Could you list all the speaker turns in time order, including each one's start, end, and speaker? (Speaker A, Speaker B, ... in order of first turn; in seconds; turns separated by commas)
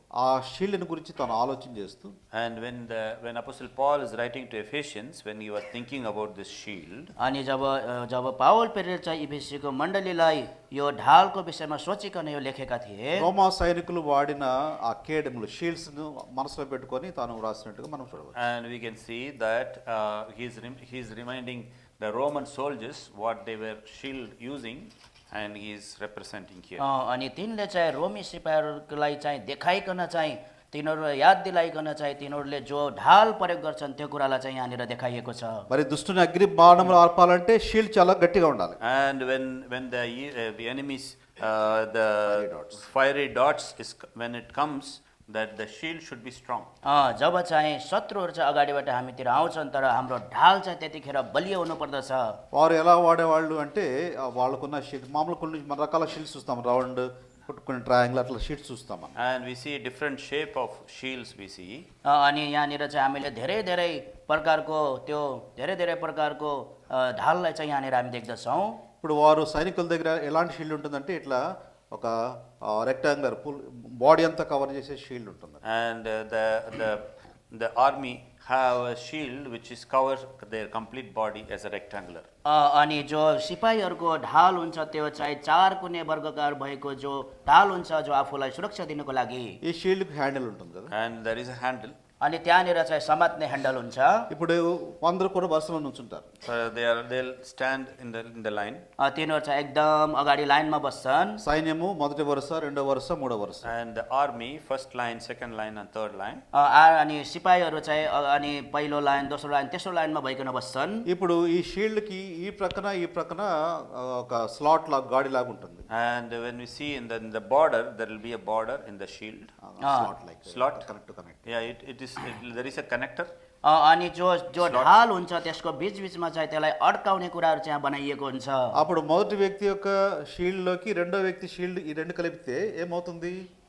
Speaker A: 0.2-2.1, Speaker B: 2.3-7.1, Speaker C: 7.2-13.3, Speaker A: 13.2-18.4, Speaker B: 18.4-26.8, Speaker C: 26.8-35.7, Speaker A: 35.7-38.8, Speaker B: 38.8-46.7, Speaker A: 42.3-42.8, Speaker C: 46.9-52.4, Speaker A: 52.5-59.1, Speaker B: 59.2-61.9, Speaker C: 62.1-68.8, Speaker A: 69.0-75.6, Speaker B: 75.6-82.3, Speaker C: 82.5-89.6, Speaker A: 89.6-90.9, Speaker B: 90.9-92.0, Speaker C: 92.2-94.3, Speaker A: 94.3-96.3, Speaker B: 96.4-98.8, Speaker C: 99.0-101.4, Speaker A: 101.4-103.7, Speaker B: 103.6-106.4, Speaker C: 106.5-111.1, Speaker A: 111.1-115.9, Speaker B: 115.9-119.5, Speaker A: 119.6-121.4, Speaker C: 119.8-120.1, Speaker B: 120.5-120.9, Speaker B: 121.5-123.3, Speaker C: 123.6-128.8, Speaker B: 124.6-125.0, Speaker A: 128.7-133.5